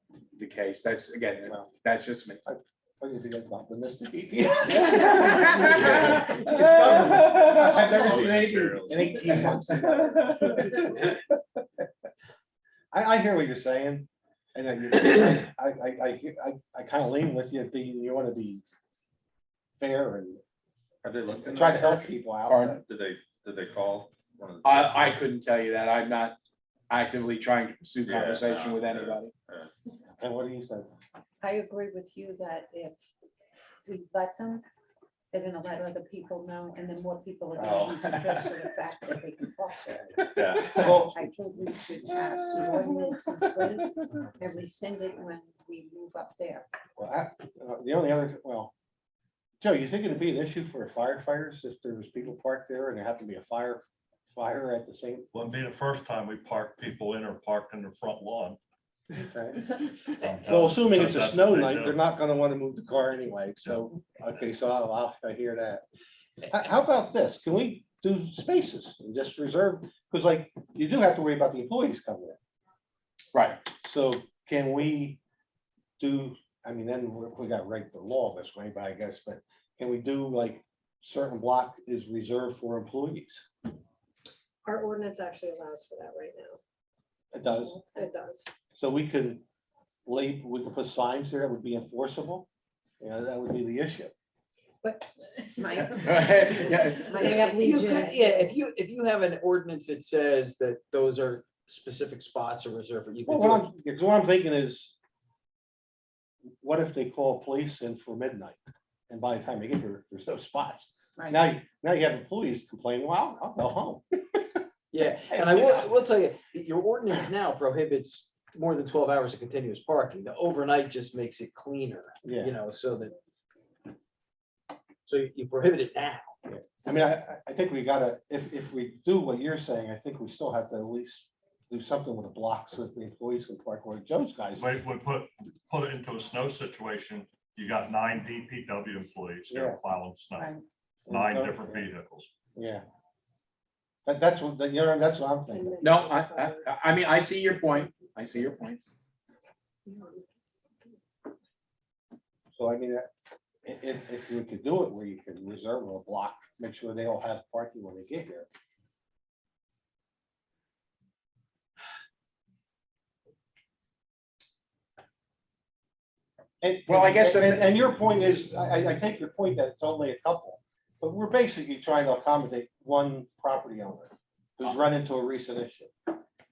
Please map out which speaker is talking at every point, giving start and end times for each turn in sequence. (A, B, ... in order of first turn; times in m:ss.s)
0:00.4-0:02.4 A
0:02.4-0:11.4 B
0:05.5-0:08.2 A
0:07.6-0:09.4 C
0:12.9-0:18.6 B
0:19.8-0:20.4 B
0:21.0-0:22.2 C
0:21.4-0:22.8 B
0:22.5-0:22.8 A
0:22.8-0:25.1 C
0:24.6-0:26.4 A
0:26.9-0:29.3 A
0:28.0-0:29.7 C
0:30.2-0:30.9 B
0:31.4-0:33.0 D
0:33.8-0:34.6 D
0:35.3-0:46.6 D
0:40.4-0:40.7 C
0:40.7-0:41.2 B
0:47.0-0:48.7 B
0:49.6-0:55.3 B
0:55.3-0:58.6 E
0:59.1-0:59.6 B
1:00.2-1:02.0 E
1:00.4-1:05.8 B
1:06.5-1:12.4 B
1:13.3-1:13.6 A
1:13.7-1:15.2 B
1:16.0-1:23.5 B
1:24.6-1:26.6 F
1:27.3-1:27.8 B
1:27.8-1:28.5 F
1:28.8-1:29.4 B
1:30.0-1:32.5 B
1:33.0-1:34.1 B
1:34.8-1:35.1 F
1:35.6-1:38.5 D
1:35.8-1:37.2 A
1:37.1-1:37.6 F
1:37.2-1:43.7 G
1:43.2-1:44.9 B
1:46.6-1:48.6 B
1:49.1-1:54.0 B
1:54.9-2:03.2 G
1:55.3-1:55.8 B
2:02.2-2:02.5 B
2:05.0-2:06.4 G
2:06.5-2:14.8 B
2:14.6-2:22.3 E
2:19.5-2:19.8 B
2:21.1-2:21.8 B
2:22.6-2:22.8 B
2:24.0-2:25.8 B
2:25.5-2:26.6 F
2:25.8-2:28.9 A
2:32.5-2:33.1 B
2:33.6-2:38.5 B
2:46.6-2:55.9 B
2:46.9-2:47.7 A